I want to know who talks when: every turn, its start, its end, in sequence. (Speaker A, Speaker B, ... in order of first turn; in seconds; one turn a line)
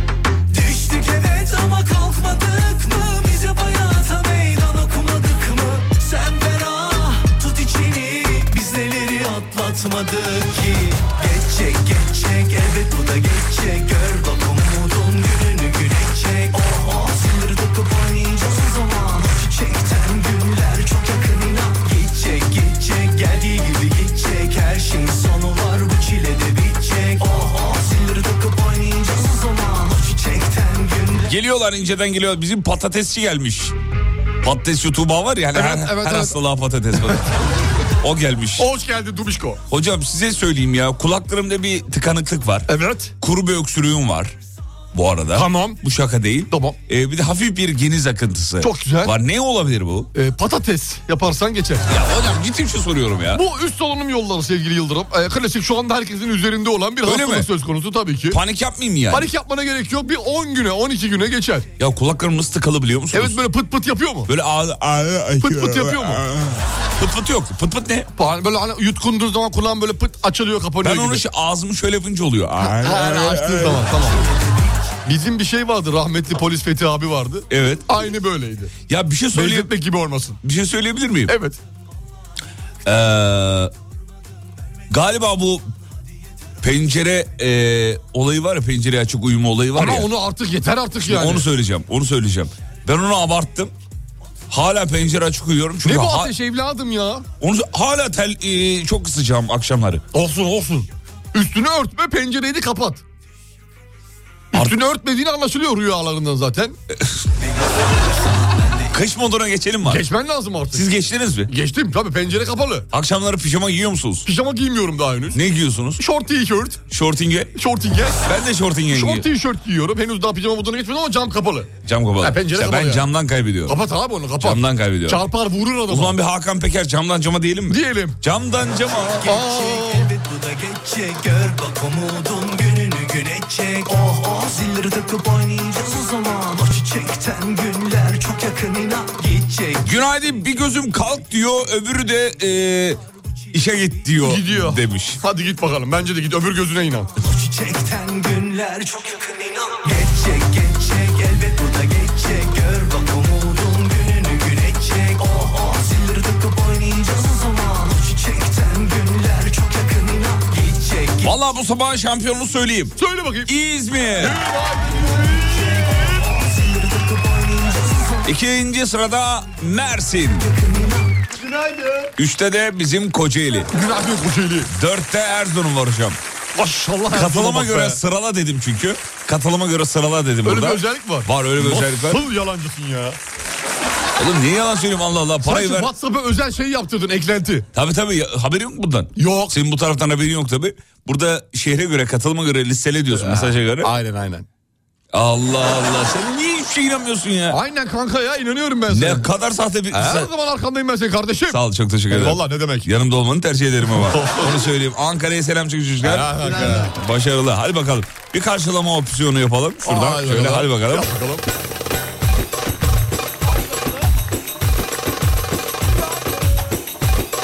Speaker A: 0.5-31.4
Speaker B: 31.3-33.8
Speaker B: 34.4-37.4
Speaker C: 35.5-36.4
Speaker B: 38.0-38.7
Speaker C: 38.6-39.6
Speaker B: 39.7-42.7
Speaker C: 42.7-43.1
Speaker B: 43.2-44.4
Speaker B: 44.9-50.1
Speaker C: 45.3-45.8
Speaker C: 46.5-46.8
Speaker C: 48.6-49.1
Speaker C: 50.1-51.8
Speaker B: 51.9-53.4
Speaker C: 53.3-58.4
Speaker B: 57.0-57.5
Speaker B: 58.3-59.3
Speaker C: 59.1-61.7
Speaker B: 61.8-63.4
Speaker C: 63.1-64.3
Speaker B: 64.3-68.1
Speaker C: 65.4-66.2
Speaker C: 68.2-71.2
Speaker B: 70.8-73.9
Speaker C: 72.6-74.2
Speaker A: 74.2-74.8
Speaker C: 75.1-78.7
Speaker B: 77.5-77.9
Speaker B: 78.9-79.7
Speaker C: 79.3-80.4
Speaker B: 80.4-81.3
Speaker C: 81.3-81.6
Speaker B: 82.8-83.7
Speaker B: 84.9-85.6
Speaker B: 86.6-90.1
Speaker C: 89.8-91.4
Speaker B: 91.0-93.7
Speaker B: 94.5-96.3
Speaker C: 95.8-97.2
Speaker B: 97.4-100.0
Speaker C: 100.1-103.0
Speaker B: 104.5-104.8
Speaker C: 104.5-106.8
Speaker B: 106.9-107.2
Speaker A: 107.6-108.9
Speaker B: 108.9-110.0
Speaker C: 109.8-110.9
Speaker B: 110.7-111.5
Speaker C: 111.5-112.9
Speaker B: 112.9-114.3
Speaker C: 114.2-115.4
Speaker B: 115.3-116.0
Speaker C: 116.0-116.8
Speaker B: 116.9-117.5
Speaker C: 117.6-118.2
Speaker B: 118.3-119.2
Speaker C: 118.9-123.1
Speaker B: 121.8-123.8
Speaker C: 123.7-126.2
Speaker B: 124.4-125.2
Speaker B: 125.9-129.3
Speaker C: 127.7-128.2
Speaker A: 129.2-140.0
Speaker C: 129.3-130.1
Speaker B: 139.8-143.0
Speaker B: 143.5-145.2
Speaker C: 144.2-147.1
Speaker A: 147.2-161.3
Speaker B: 161.2-164.4
Speaker C: 163.0-163.5
Speaker C: 164.2-166.3
Speaker A: 164.9-168.3
Speaker B: 168.2-170.5
Speaker A: 170.4-171.3
Speaker B: 172.2-173.7
Speaker C: 173.7-174.7
Speaker B: 174.7-176.2
Speaker C: 176.6-178.0
Speaker B: 177.1-182.2
Speaker C: 180.4-183.2
Speaker B: 184.2-185.9
Speaker C: 185.4-187.7
Speaker B: 187.7-193.9
Speaker C: 189.2-189.6
Speaker C: 193.1-194.4
Speaker B: 195.1-197.6
Speaker C: 197.5-199.3
Speaker B: 198.9-200.3
Speaker C: 199.9-201.6
Speaker B: 201.5-211.1
Speaker C: 202.1-202.9
Speaker C: 203.9-204.6
Speaker C: 206.0-206.9
Speaker C: 209.8-211.4